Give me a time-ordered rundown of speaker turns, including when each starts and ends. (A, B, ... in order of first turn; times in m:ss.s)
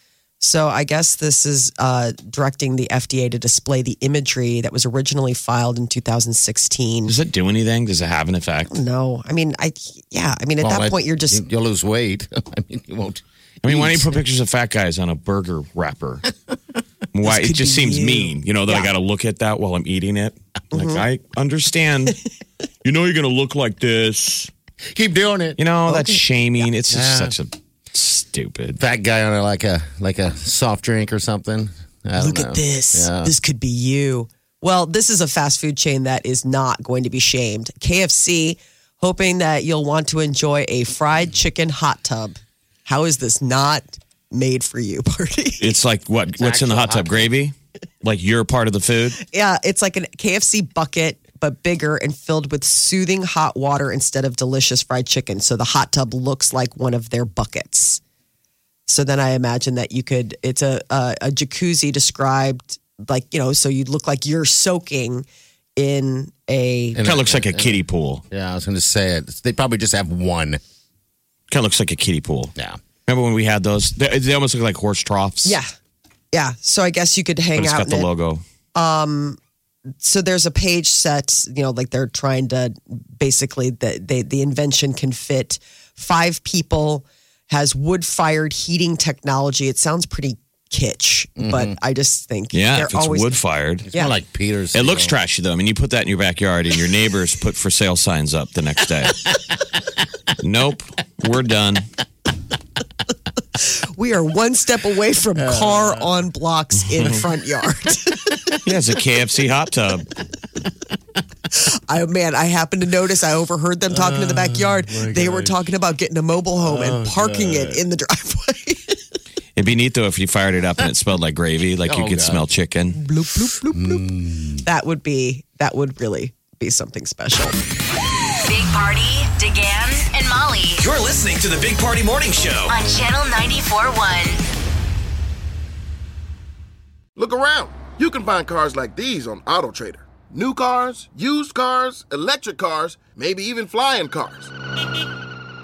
0:00.4-0:07.1 A
0:07.1-0:08.8 B
0:08.7-0:11.4 A
0:10.6-0:14.1 C
0:13.6-0:16.3 B
0:17.1-0:22.2 B
0:17.2-0:18.9 A
0:20.7-0:21.0 A
0:22.8-0:24.5 B
0:24.9-0:25.6 C
0:25.6-0:28.8 B
0:25.9-0:26.2 A
0:26.9-0:27.4 C
0:28.8-0:33.3 C
0:32.2-0:45.7 A
0:45.6-0:49.2 B
0:46.3-0:47.3 C
0:49.2-0:58.0 A
0:58.9-1:07.0 A
1:06.9-1:10.6 C
1:07.0-1:08.2 B
1:11.5-1:12.5 B
1:13.1-1:15.6 B
1:15.4-1:15.7 A
1:16.3-1:18.1 A
1:17.5-1:18.4 B
1:18.7-1:19.4 A
1:20.0-1:33.4 A
1:31.4-1:31.8 C
1:32.5-1:33.9 B
1:33.8-1:35.2 C
1:34.7-1:39.3 B
1:40.4-1:41.9 B
1:43.6-1:48.5 A
1:45.4-1:46.0 C
1:46.9-1:47.2 B
1:48.6-1:50.1 B
1:51.5-1:59.0 A
1:53.9-1:55.7 C
1:56.6-1:57.8 C
1:59.6-2:03.0 B
2:01.8-2:02.4 C
2:02.9-2:04.0 A
2:03.7-2:04.6 C
2:04.6-2:07.6 A
2:08.4-2:10.9 D
2:10.8-2:12.7 E
2:12.6-2:14.4 D
2:17.2-2:24.5 F